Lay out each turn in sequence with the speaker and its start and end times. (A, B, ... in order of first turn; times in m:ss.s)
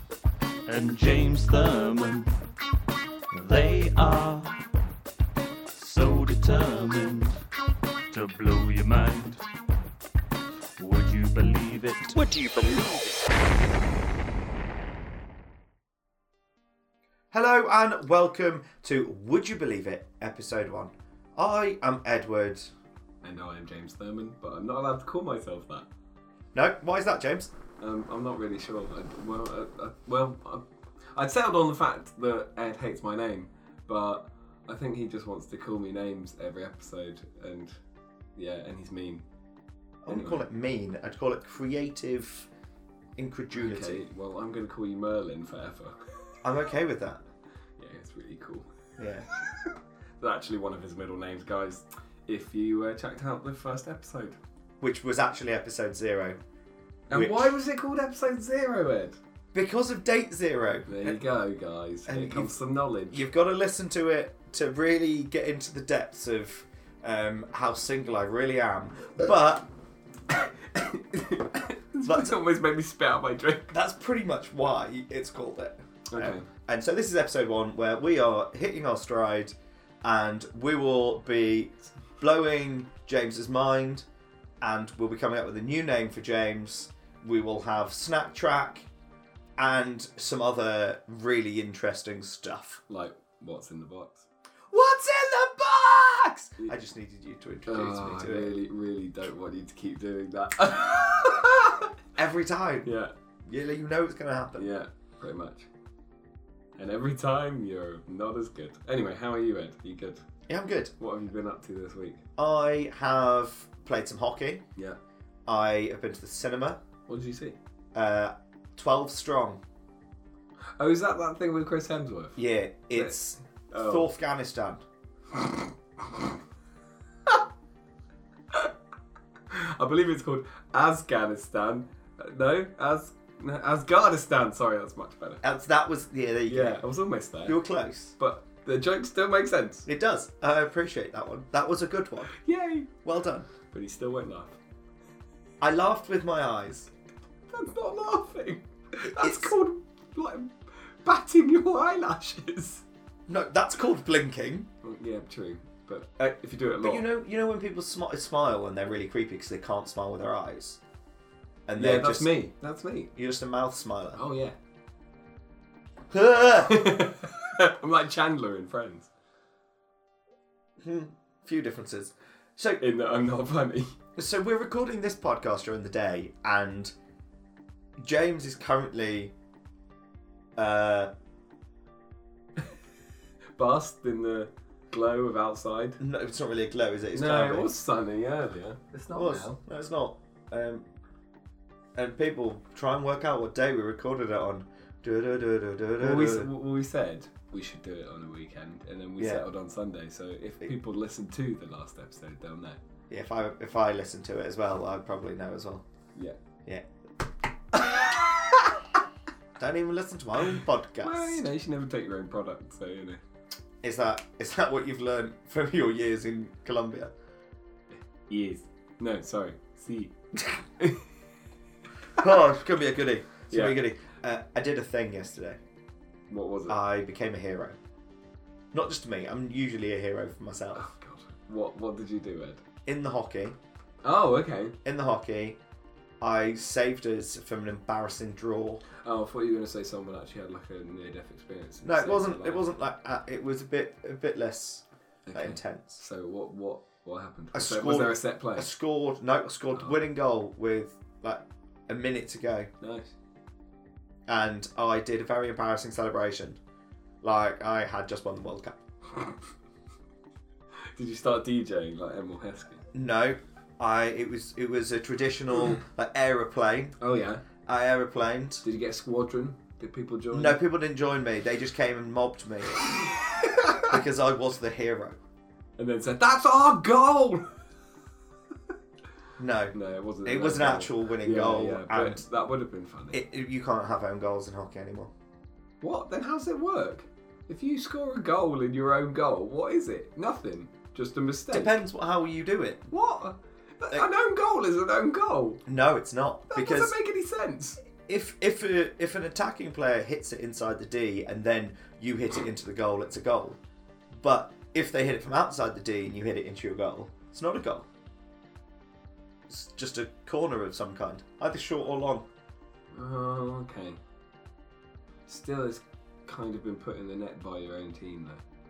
0:00.7-0:02.4 A
0:03.3-0:04.6 A
0:05.8-0:07.4 A
0:08.1-0:09.4 A
0:10.8-0:13.3 A
0:17.3-0:22.7 B
0:23.2-0:25.9 C
0:26.5-0:27.5 B
0:27.8-0:37.8 C
0:38.4-0:39.2 C
0:40.0-0:42.5 B
0:40.1-0:40.4 C
0:43.2-0:44.0 B
0:43.6-0:46.0 C
0:46.4-0:47.2 B
0:47.8-0:48.7 C
0:49.0-0:49.3 B
0:49.5-0:54.4 C
0:54.8-0:56.4 B
0:57.1-0:57.6 B
0:57.1-0:59.2 C
0:59.5-1:01.2 B
1:00.9-1:03.3 C
1:02.1-1:02.6 B
1:03.1-1:09.7 B
1:10.3-1:13.8 C
1:12.0-1:12.4 B
1:13.7-1:24.1 B
1:16.1-1:16.5 C
1:24.6-1:28.9 B
1:29.6-1:32.8 B
1:32.9-1:34.3 C
1:34.7-1:38.6 B
1:37.7-1:41.9 C
1:42.2-1:42.9 B
1:42.8-1:43.1 C
1:43.4-1:44.7 B
1:44.6-1:45.7 C
1:46.8-1:50.2 C
1:50.5-1:50.9 B
1:51.0-1:52.2 C
1:52.4-1:54.6 B
1:55.5-1:56.8 B
1:57.1-1:57.6 C
1:57.9-1:59.6 B
2:00.8-2:02.4 C
2:02.4-2:04.8 B
2:02.9-2:04.1 C
2:09.5-2:15.4 C
2:15.4-2:16.8 B
2:16.5-2:17.6 C
2:17.4-2:18.2 B
2:18.2-2:19.9 C
2:19.9-2:22.4 B
2:22.3-2:22.9 C
2:23.0-2:23.5 B
2:23.7-2:24.6 C
2:25.6-2:26.9 B
2:27.5-2:32.8 C
2:29.0-2:29.5 B
2:33.3-2:34.7 B
2:34.8-2:37.0 C
2:36.8-2:40.8 B
2:41.7-2:42.4 B
2:41.8-2:43.1 C
2:43.2-2:44.2 B
2:44.2-2:44.6 C
2:46.1-2:47.0 B
2:46.6-2:49.1 C
2:50.8-2:52.8 B
2:52.8-2:53.9 C
2:54.2-2:56.9 B
2:58.0-2:59.3 B
3:00.6-3:01.1 B
3:03.6-3:06.0 C
3:06.0-3:07.7 B
3:07.1-3:09.6 C
3:09.1-3:10.9 B
3:12.0-3:16.5 B
3:16.0-3:22.8 C
3:19.2-3:19.5 B
3:23.1-3:25.8 B
3:29.6-3:31.5 B
3:31.0-3:33.2 C
3:33.8-3:37.1 B
3:37.9-3:40.1 C
3:40.8-3:41.1 C
3:42.2-3:45.6 B
3:43.5-3:43.8 C
3:46.3-3:46.8 C
3:46.7-3:47.8 B
3:48.7-3:50.9 B
3:50.8-3:52.6 C
3:52.9-3:53.6 B
3:54.0-3:54.8 C
3:54.8-3:55.6 B
3:56.2-3:58.8 B
3:59.0-4:02.6 C
4:01.8-4:06.0 B
4:05.3-4:08.7 C
4:07.5-4:12.7 B
4:12.8-4:13.1 C
4:14.3-4:16.6 B
4:17.2-4:18.8 B
4:21.0-4:22.8 C
4:22.9-4:27.0 B
4:27.0-4:27.4 C
4:27.6-4:28.6 B
4:28.6-4:30.6 C
4:30.3-4:33.1 B
4:33.7-4:35.2 B
4:35.8-4:37.5 C
4:39.4-4:42.2 B
4:39.7-4:43.2 C
4:43.1-4:45.1 B
4:45.8-4:51.8 C
4:51.5-4:52.9 B
4:52.9-4:55.6 C
4:55.7-4:57.0 B
4:56.5-4:57.8 C
4:58.0-5:03.6 B
5:04.1-5:07.9 B
5:09.5-5:12.3 B
5:12.9-5:14.0 C
5:15.3-5:18.4 C